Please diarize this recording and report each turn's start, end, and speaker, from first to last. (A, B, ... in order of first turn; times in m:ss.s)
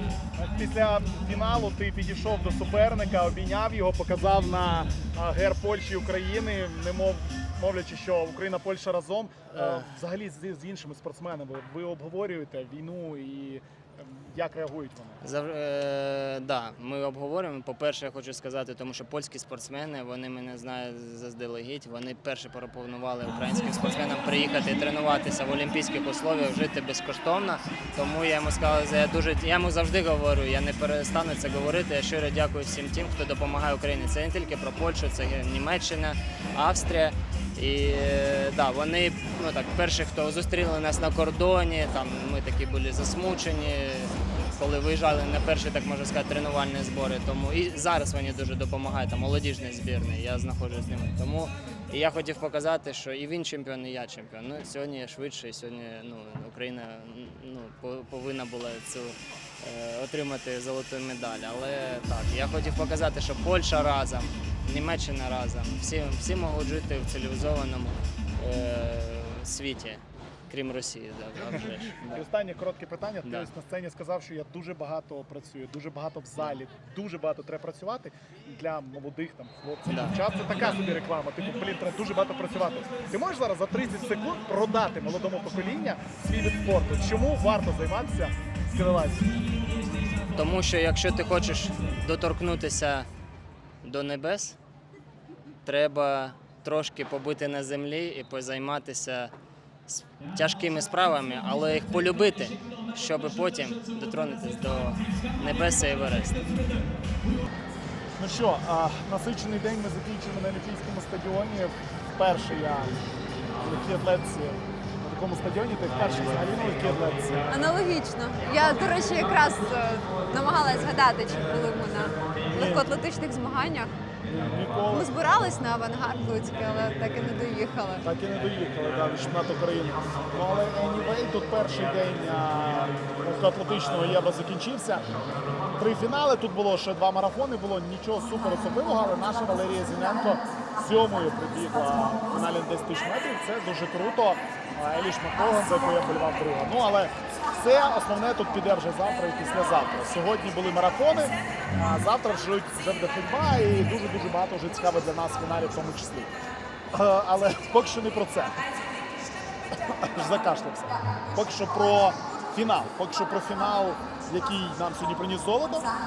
0:00.4-0:15.2 A
0:15.2-1:12.2 B
1:12.0-1:29.4 A
1:13.2-1:13.5 B
1:19.9-1:20.2 B
1:30.3-1:33.1 B
1:33.8-1:34.6 B
1:35.6-1:39.3 B
1:39.9-1:46.4 B
1:48.2-1:53.0 A
1:53.6-1:57.5 A
1:57.5-2:03.9 C
2:04.3-2:05.1 A
2:04.9-2:08.0 C
2:08.0-2:15.0 A
2:15.8-2:36.3 A
2:36.9-2:38.6 A
2:39.7-2:45.9 A